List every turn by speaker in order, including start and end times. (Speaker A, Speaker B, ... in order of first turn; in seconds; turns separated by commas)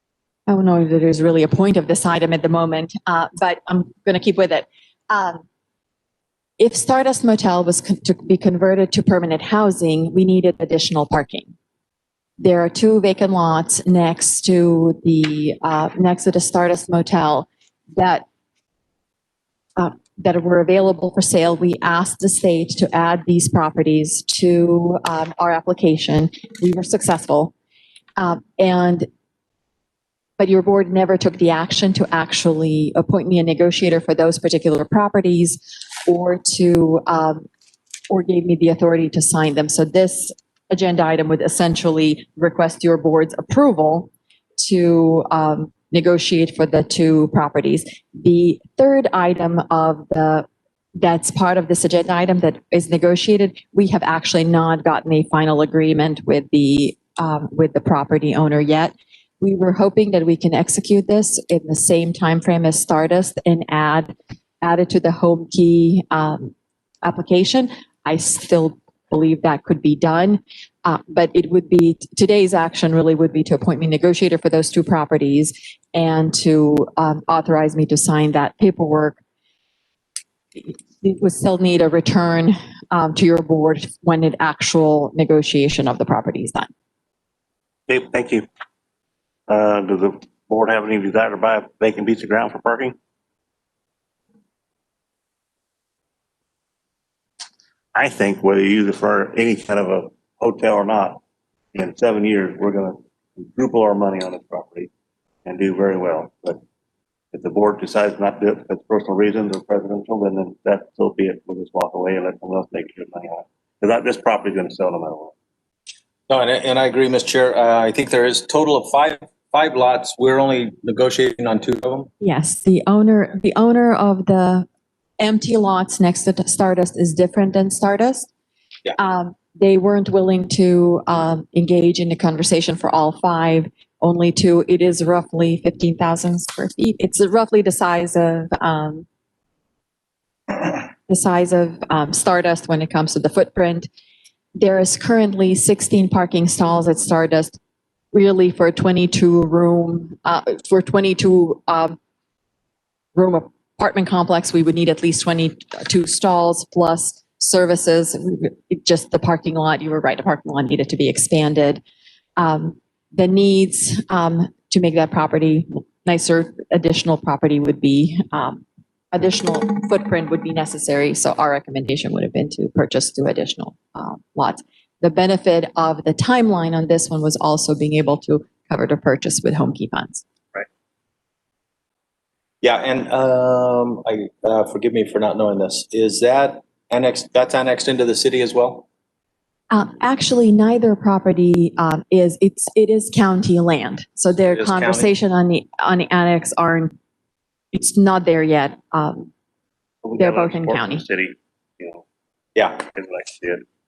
Speaker A: 0.5-5.4, Speaker A: 6.6-11.5, Speaker A: 12.4-18.2, Speaker A: 19.8-27.5, Speaker A: 28.2-29.1, Speaker A: 30.4-37.5, Speaker A: 38.1-50.5, Speaker A: 51.0-79.2, Speaker A: 80.5-86.7, Speaker B: 87.9-88.5, Speaker B: 89.5-93.0, Speaker B: 97.9-101.2, Speaker B: 101.7-104.9, Speaker B: 105.4-106.6, Speaker B: 107.3-115.3, Speaker C: 116.3-122.1, Speaker A: 122.2-124.7, Speaker A: 125.2-128.3, Speaker A: 128.9-139.1, Speaker A: 140.5-143.9, Speaker A: 144.6-147.6, Speaker A: 148.1-152.0, Speaker A: 153.1-161.8, Speaker A: 162.4-180.2, Speaker C: 182.6-188.8, Speaker A: 189.7-196.9, Speaker C: 194.5-195.1, Speaker A: 197.7-199.3, Speaker B: 200.0-202.0, Speaker A: 200.2-201.0, Speaker C: 202.6-202.8, Speaker B: 202.9-203.6